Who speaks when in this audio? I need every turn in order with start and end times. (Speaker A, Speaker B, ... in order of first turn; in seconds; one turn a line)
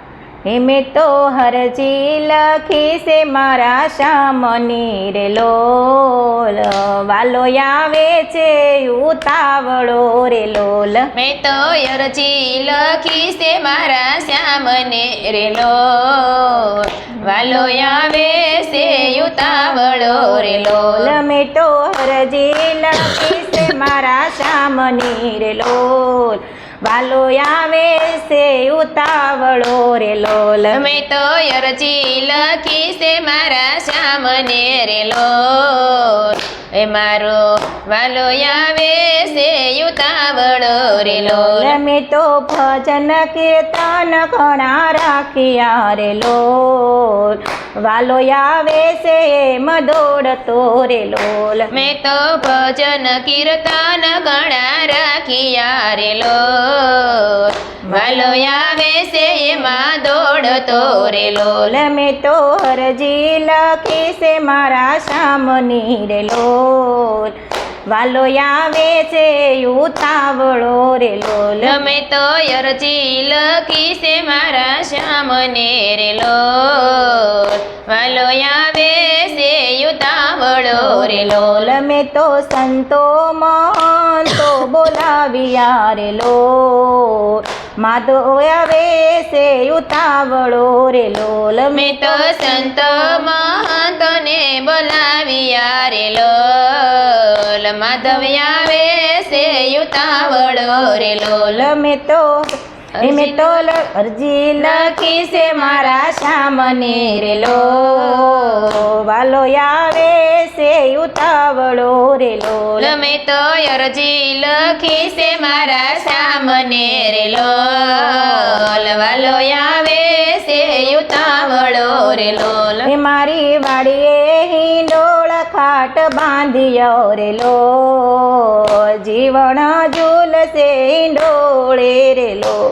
Speaker A: 0.5-11.1
Speaker B: 11.1-21.1
Speaker A: 20.8-30.9
Speaker B: 30.7-41.8
Speaker A: 41.0-51.7
Speaker B: 51.7-61.8
Speaker A: 57.8-58.4
Speaker A: 60.7-67.3
Speaker A: 67.9-71.8
Speaker B: 71.6-81.8
Speaker A: 80.7-93.2
Speaker B: 91.7-101.7
Speaker A: 101.5-102.3
Speaker B: 103.0-103.7
Speaker A: 103.0-112.9
Speaker B: 104.6-106.2
Speaker B: 106.8-108.9
Speaker B: 112.8-122.9
Speaker A: 122.8-132.6